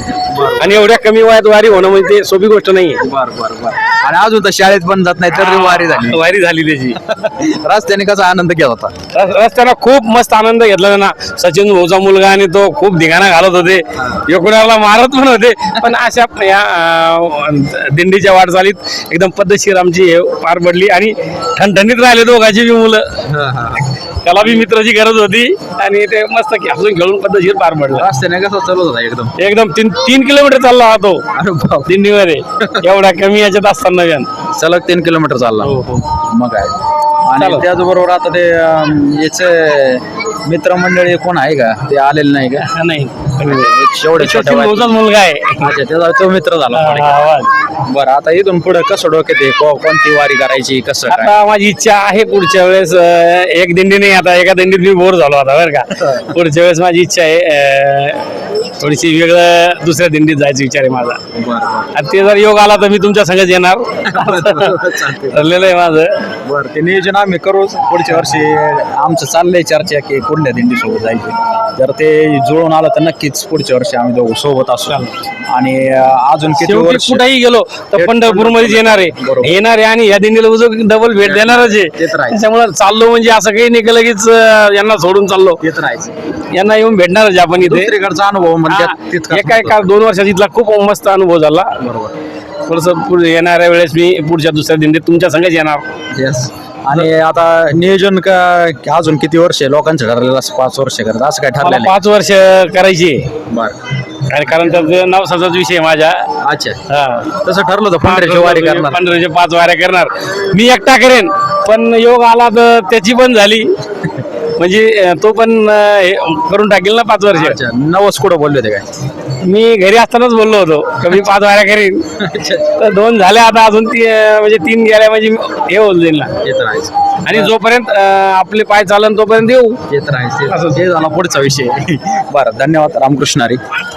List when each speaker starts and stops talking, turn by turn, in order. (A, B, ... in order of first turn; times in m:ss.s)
0:00.3-0:00.8 A
0:00.6-0:03.0 B
0:03.0-0:06.2 A
0:05.3-0:07.0 B
0:07.0-0:08.9 A
0:09.1-0:23.2 B
0:23.3-0:23.9 A
0:24.2-0:28.1 B
0:27.9-0:29.3 A
0:29.4-0:31.2 B
0:31.3-0:31.9 A
0:31.8-0:34.3 B
0:32.6-0:32.8 A
0:34.5-0:36.7 A
0:35.6-0:36.0 B
0:37.3-0:42.7 A
0:37.4-0:37.6 B
0:42.6-0:45.7 B
0:43.6-0:44.9 A
0:45.6-0:47.2 A
0:46.7-0:47.5 B
0:47.8-0:51.3 A
0:51.1-1:01.2 B
1:01.3-1:01.9 A
1:01.9-1:06.3 B
1:04.0-1:05.4 A
1:06.4-1:17.2 A
1:16.5-1:25.6 B
1:17.9-1:19.5 A
1:21.2-1:22.4 A
1:25.6-1:26.1 A
1:26.5-1:27.9 B
1:27.6-1:29.8 A
1:28.7-1:31.8 B
1:31.8-1:32.2 A
1:32.7-1:35.8 B
1:36.1-1:41.9 A
1:41.6-1:43.3 B
1:43.5-1:43.8 A
1:44.3-1:46.3 B
1:46.4-1:46.8 A
1:46.9-1:47.3 B
1:47.3-1:49.0 A
1:48.0-1:53.7 B
1:54.6-1:57.6 B
1:57.3-1:58.9 A
1:59.4-2:02.0 B
2:02.2-2:02.7 A
2:02.8-2:06.3 B
2:06.4-2:07.5 A
2:07.2-2:09.8 B
2:09.9-2:13.6 A
2:10.5-2:10.8 B